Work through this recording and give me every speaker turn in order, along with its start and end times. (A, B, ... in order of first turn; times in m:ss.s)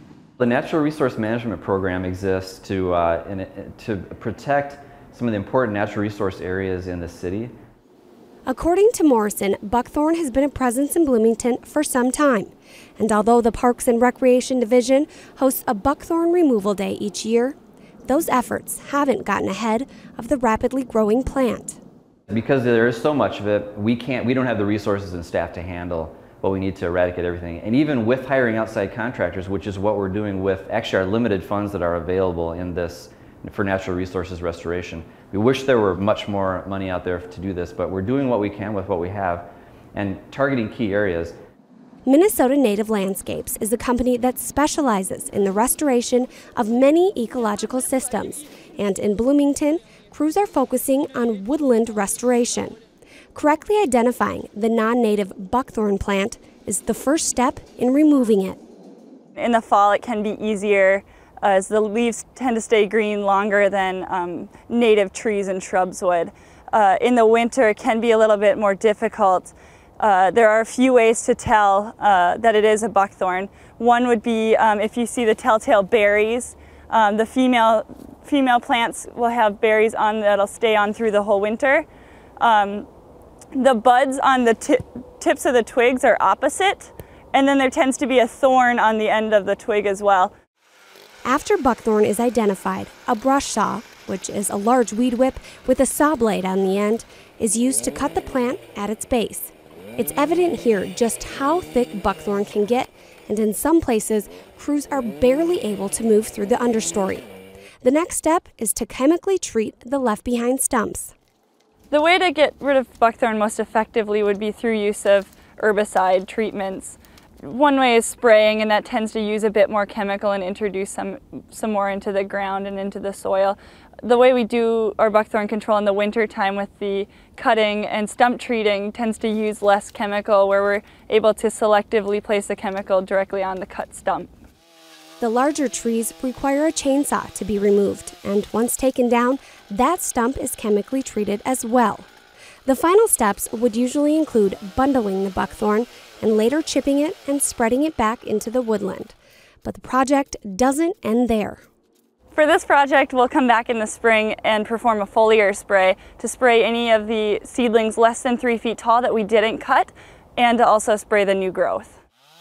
0:00.4-0:07.5 A
0:08.5-0:21.8 B
0:22.3-0:41.4 A
0:42.1-0:52.8 B
0:53.3-0:58.6 B
0:59.4-1:21.9 C
1:22.4-1:22.9 C
1:23.5-1:30.3 C
1:31.3-1:47.3 B
1:47.8-1:51.1 B
1:51.9-2:14.3 C
2:15.2-2:22.1 B
2:22.7-2:31.6 B
2:32.3-2:42.0 C